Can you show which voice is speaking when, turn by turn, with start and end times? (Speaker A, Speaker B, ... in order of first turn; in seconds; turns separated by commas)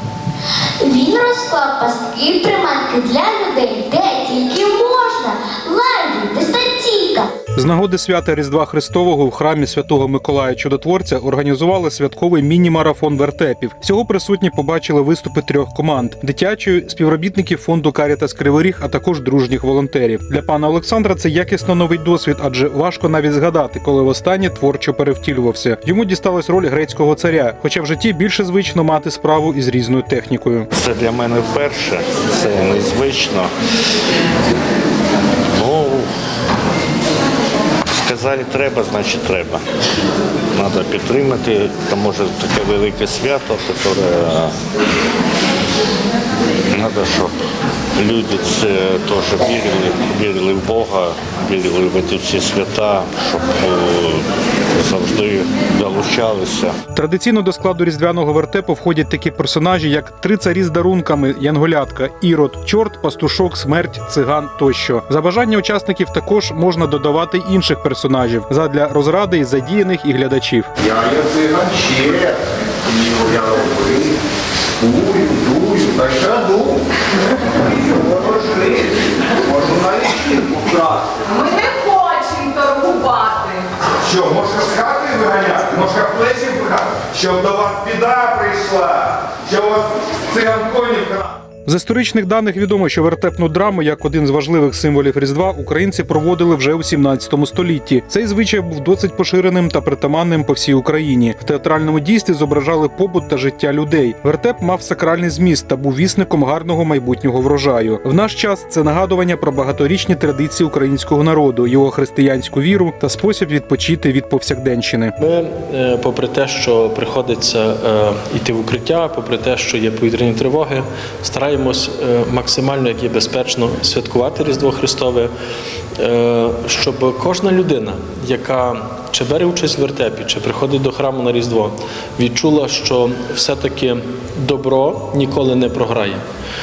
Speaker A: 0.8-7.3, Speaker B: 7.5-30.7, Speaker C: 30.8-33.5, Speaker C: 35.5-36.1, Speaker C: 37.9-39.6, Speaker C: 40.5-44.5, Speaker C: 46.7-47.3, Speaker C: 48.0-56.8, Speaker B: 56.9-70.7, Speaker D: 70.8-74.2, Speaker D: 74.8-76.8, Speaker D: 77.5-81.3, Speaker E: 81.4-83.6, Speaker D: 84.0-91.3, Speaker B: 91.7-115.1, Speaker F: 115.2-125.3, Speaker F: 126.0-136.2